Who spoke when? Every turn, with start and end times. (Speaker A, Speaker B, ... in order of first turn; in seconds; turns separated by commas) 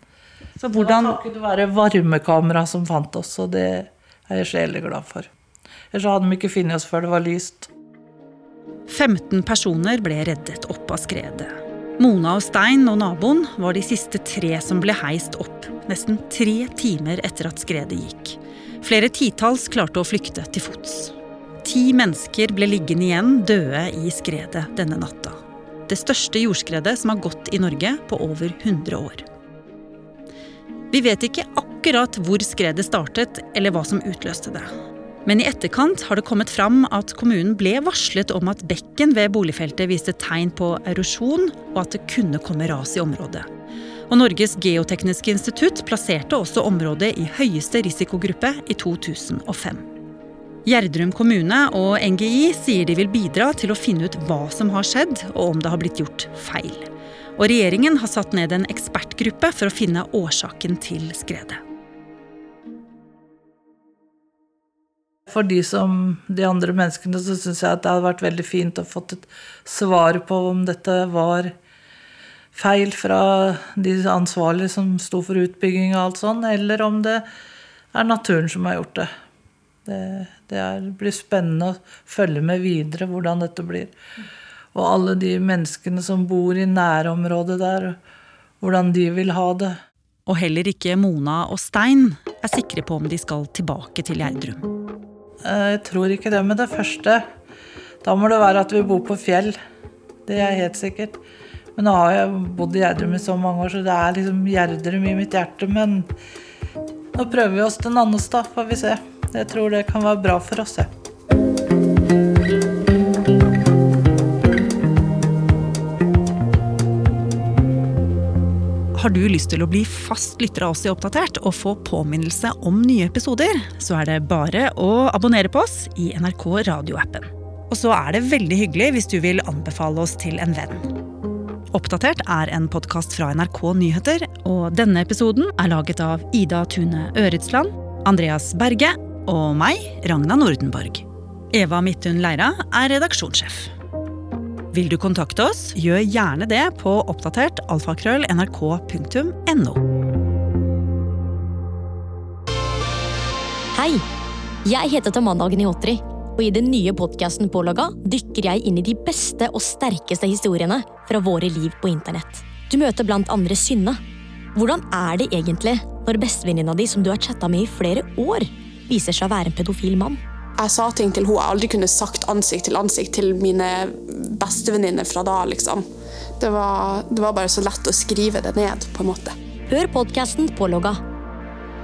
Speaker A: 0.6-1.2, Speaker B: 0.7-5.3, Speaker B: 5.9-7.7, Speaker A: 8.9-29.2, Speaker A: 30.9-34.7, Speaker A: 35.2-43.5, Speaker A: 44.1-49.8, Speaker A: 50.7-56.9, Speaker A: 57.4-61.6, Speaker B: 65.3-71.5, Speaker B: 72.5-77.2, Speaker B: 77.9-79.1, Speaker B: 79.9-83.9, Speaker B: 84.8-88.0, Speaker B: 88.6-89.8, Speaker A: 90.3-94.7, Speaker B: 95.5-97.2, Speaker B: 98.0-99.6, Speaker B: 100.3-101.2, Speaker B: 101.8-106.1, Speaker B: 107.2-110.9, Speaker A: 119.0-130.9, Speaker A: 131.7-143.7, Speaker A: 144.7-149.8, Speaker C: 153.7-154.0, Speaker C: 154.7-164.0, Speaker C: 164.6-170.2, Speaker D: 170.6-175.9, Speaker D: 176.4-179.3, Speaker C: 179.7-181.0